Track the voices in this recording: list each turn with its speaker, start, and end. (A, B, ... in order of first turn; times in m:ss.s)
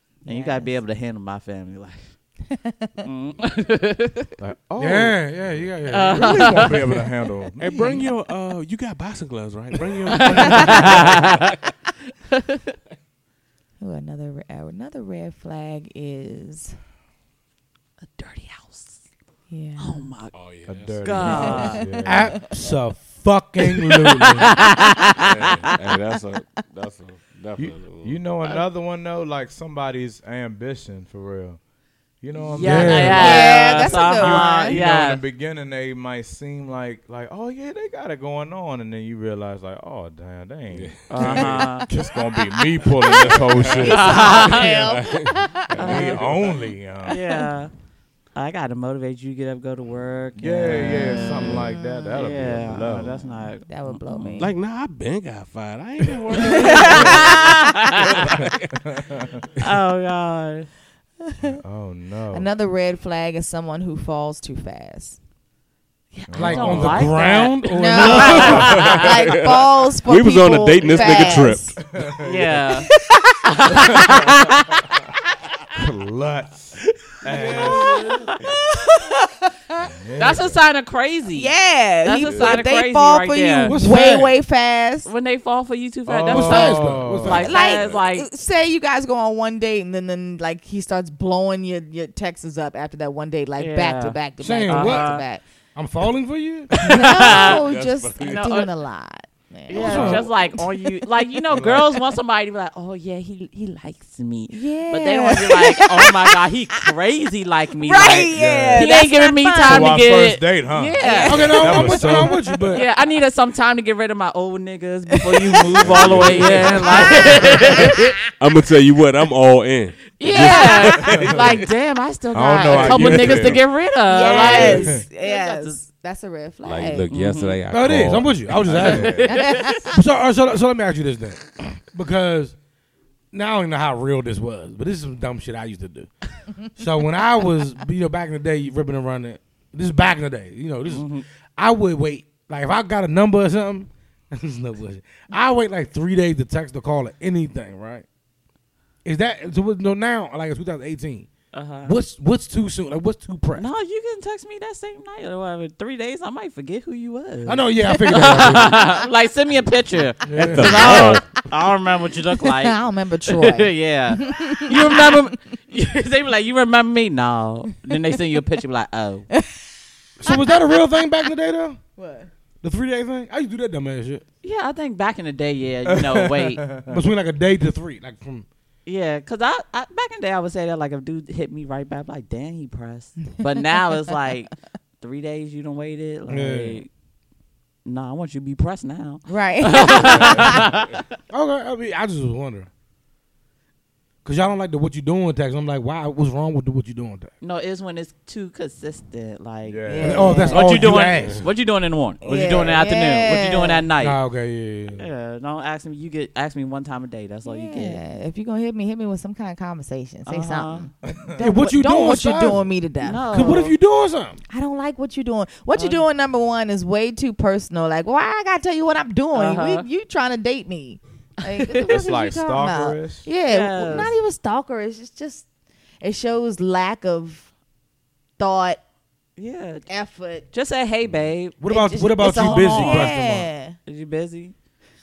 0:00.2-0:00.8 A
0:00.3-0:02.2 B
0:02.6-0:03.1 A
0:03.0-0:04.3 B
0:04.4-0:07.7 C
0:04.8-0:06.4 D
0:05.9-0:07.0 B
0:06.2-0:06.8 A
0:07.6-0:11.5 E
0:10.1-0:11.5 B
0:12.3-0:12.7 B
0:13.8-0:16.8 A
0:18.1-0:19.0 B
0:19.5-0:20.1 A
0:19.8-0:20.3 B
0:20.3-0:21.7 E
0:20.6-0:22.3 C
0:21.0-0:21.8 B
0:21.2-0:22.3 A
0:22.0-0:24.5 D
0:24.2-0:25.6 B
0:25.2-0:28.2 E
0:27.6-0:31.6 C
0:32.2-0:44.4 C
0:32.4-0:35.2 B
0:32.6-0:33.4 D
0:33.0-0:34.8 A
0:40.7-0:41.8 E
0:41.1-0:41.9 B
0:42.2-0:46.6 A
0:43.1-0:46.6 E
0:43.8-0:44.7 B
0:45.8-0:47.2 C
0:45.8-0:46.3 B
0:47.1-0:47.7 B
0:47.1-0:47.4 A
0:48.4-0:54.5 B
0:50.4-0:53.2 C
0:50.6-0:54.5 A
0:54.4-0:58.6 E
0:56.4-0:57.9 A
0:56.5-0:58.2 B
0:58.4-0:59.4 C
0:59.6-1:00.7 B
1:01.3-1:01.6 A
1:01.6-1:02.5 C
1:02.3-1:05.2 A
1:06.1-1:09.2 B
1:06.3-1:07.2 C
1:06.3-1:08.8 D
1:07.7-1:11.8 A
1:08.2-1:09.0 C
1:08.7-1:11.8 E
1:10.8-1:12.5 C
1:10.9-1:11.4 B
1:12.2-1:12.9 B
1:13.0-1:13.4 A
1:13.4-1:14.8 B
1:13.8-1:14.4 C
1:15.7-1:18.1 C
1:17.4-1:17.9 D
1:18.0-1:18.3 B
1:18.4-1:19.8 A
1:19.8-1:20.6 C
1:20.2-1:23.8 B
1:21.3-1:25.1 A
1:22.2-1:22.6 C
1:23.7-1:24.3 D
1:25.0-1:28.3 B
1:26.1-1:27.6 C
1:26.3-1:27.5 D
1:27.4-1:35.4 A
1:33.6-1:34.2 B
1:34.4-1:35.2 D
1:34.7-1:35.2 B
1:35.8-1:36.7 D
1:36.8-1:37.6 B
1:36.8-1:41.0 A
1:37.2-1:38.6 E
1:38.2-1:38.7 B
1:39.7-1:52.1 B
1:39.7-1:40.3 D
1:41.5-1:41.9 C
1:44.5-1:46.3 A
1:47.8-1:50.1 A
1:48.0-1:48.9 C
1:49.6-1:52.6 C
1:51.0-1:51.9 A
1:51.2-1:52.8 D
1:52.7-1:58.1 B
1:55.2-1:58.1 A
1:55.8-1:57.0 C
1:55.9-1:57.1 E
1:58.4-2:01.6 E
2:00.2-2:05.8 B
2:00.9-2:01.4 C
2:02.3-2:03.6 C
2:02.8-2:03.6 E
2:04.1-2:07.1 A
2:04.2-2:05.1 C
2:06.6-2:08.6 E
2:07.1-2:07.6 B
2:07.7-2:12.6 D
2:08.6-2:09.4 C
2:08.8-2:09.8 B
2:09.3-2:10.0 A
2:13.3-2:28.1 D
2:20.9-2:21.2 B
2:29.0-2:31.3 D
2:31.5-2:31.9 B
2:31.8-2:33.7 D
2:33.6-2:49.3 B
2:37.5-2:38.8 D
2:37.9-2:38.8 A
2:40.2-2:40.9 D
2:40.4-2:41.3 E
2:42.4-2:45.4 A
2:50.2-2:51.8 D
2:50.3-2:50.8 A
2:52.0-2:52.3 A
2:52.6-2:54.2 D
2:54.4-2:56.6 B
2:55.9-2:57.0 C
2:56.9-2:58.5 D
2:58.9-3:06.9 B
3:06.3-3:06.8 D
3:07.8-3:11.0 B
3:09.3-3:10.7 A
3:09.9-3:10.7 C
3:11.3-3:12.7 D
3:14.2-3:17.3 D
3:17.4-3:24.2 B
3:19.6-3:20.6 C
3:19.9-3:21.0 A
3:20.0-3:21.5 D
3:21.2-3:21.5 E
3:22.2-3:23.8 A
3:24.0-3:25.0 D
3:25.0-3:28.0 B
3:27.4-3:33.2 A
3:30.3-3:30.9 B
3:31.0-3:31.4 C
3:31.4-3:32.7 D
3:33.0-3:33.7 B
3:33.3-3:34.4 D
3:34.5-3:45.5 A
3:35.8-3:36.0 B
3:39.3-3:39.9 B
3:41.5-3:41.8 B
3:41.8-3:43.3 C
3:43.4-3:44.1 B
3:46.0-3:47.5 A
3:48.4-3:48.8 A
3:49.4-3:49.9 B
3:49.9-3:50.5 A
3:50.5-3:51.6 B
3:51.6-3:53.5 D
3:51.6-3:53.8 A
3:52.2-3:53.1 B
3:53.9-3:54.5 B